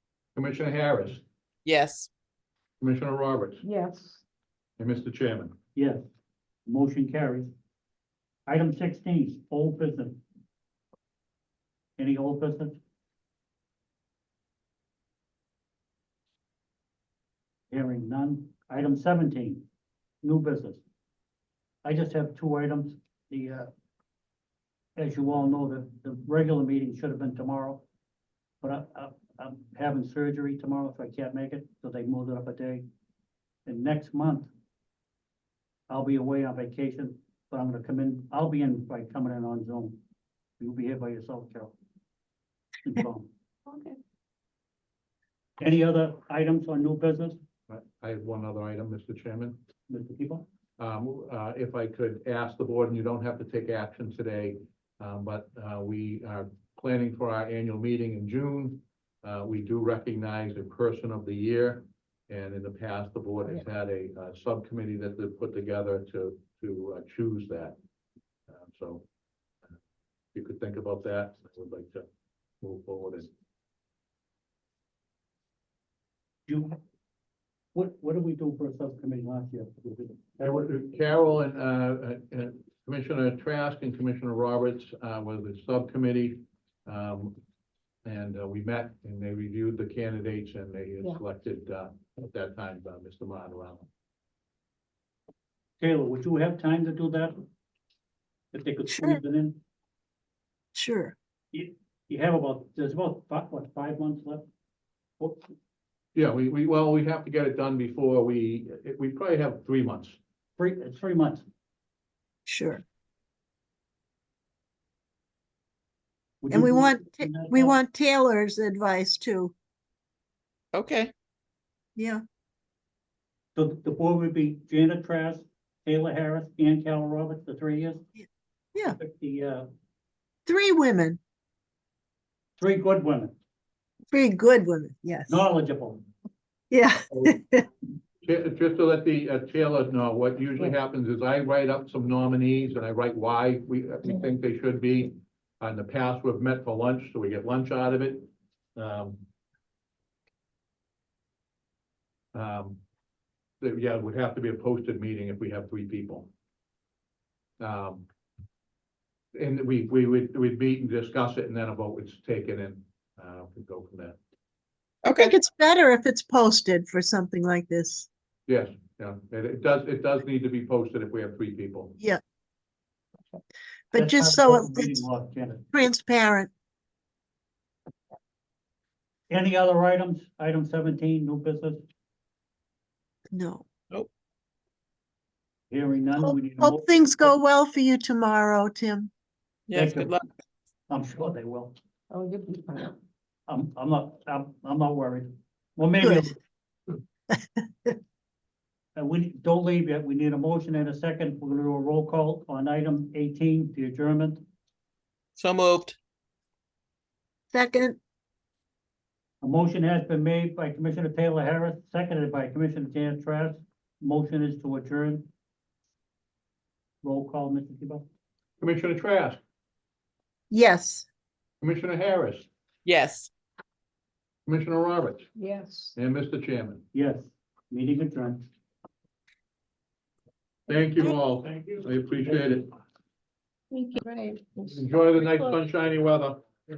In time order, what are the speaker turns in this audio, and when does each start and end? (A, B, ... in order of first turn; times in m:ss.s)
0:00.3-0:01.2 A
0:01.7-0:02.1 B
0:02.8-0:03.6 A
0:03.6-0:04.2 C
0:04.8-0:05.5 A
0:05.7-0:06.0 D
0:06.7-0:07.5 D
0:08.5-0:10.2 D
0:12.0-0:12.8 D
0:17.7-0:19.6 D
0:20.2-0:20.8 D
0:21.8-0:23.7 D
0:25.0-0:27.8 D
0:28.6-0:32.8 D
0:33.7-0:34.5 D
0:35.9-0:40.0 D
0:40.6-0:41.8 D
0:42.8-0:43.3 D
0:43.7-0:44.0 C
0:45.6-0:47.4 D
0:47.7-0:49.6 A
0:49.9-0:50.5 D
0:50.8-1:07.8 A
1:08.5-1:09.0 A
1:10.3-1:12.0 A
1:12.6-1:13.3 A
1:16.5-1:16.8 D
1:17.7-1:20.4 D
1:20.4-1:27.4 A
1:28.0-1:33.9 A
1:35.8-1:37.4 D
1:38.5-1:39.6 D
1:38.9-1:39.2 E
1:40.8-1:41.1 E
1:41.5-1:44.4 D
1:46.1-1:50.2 A
1:50.6-1:51.4 D
1:52.4-1:52.8 E
1:56.4-1:57.8 D
1:56.5-1:59.5 E
2:00.7-2:01.1 B
2:02.0-2:02.2 E
2:03.6-2:08.1 D
2:09.0-2:09.7 D
2:10.5-2:11.2 E
2:12.6-2:13.3 D
2:14.1-2:15.5 E
2:15.3-2:16.0 D
2:16.7-2:17.7 E
2:18.2-2:29.2 A
2:32.3-2:32.8 A
2:33.6-2:36.3 A
2:37.6-2:38.1 A
2:39.3-2:44.2 A
2:45.0-2:45.3 B
2:45.1-2:48.1 E
2:48.5-2:52.0 A
2:53.9-2:55.0 E
2:53.9-2:55.6 D
2:55.7-2:56.5 E
2:59.3-3:01.8 D
3:03.3-3:03.6 E
3:05.7-3:07.4 D
3:06.2-3:09.1 E
3:09.7-3:10.2 B
3:09.7-3:10.2 D
3:10.9-3:11.7 D
3:12.1-3:12.9 C
3:13.5-3:16.3 D
3:16.0-3:16.3 E
3:19.0-3:24.4 D
3:25.5-3:25.9 B
3:27.5-3:28.0 E
3:29.4-3:35.3 D
3:37.0-3:38.1 D
3:38.6-3:39.4 A
3:40.5-3:41.1 E
3:41.6-3:42.5 A
3:42.8-3:43.3 B
3:44.5-3:45.3 A
3:45.4-3:46.0 C
3:46.0-3:46.8 A
3:46.9-3:48.5 D
3:50.7-3:52.7 A
3:53.7-3:55.4 C
3:54.7-3:56.4 A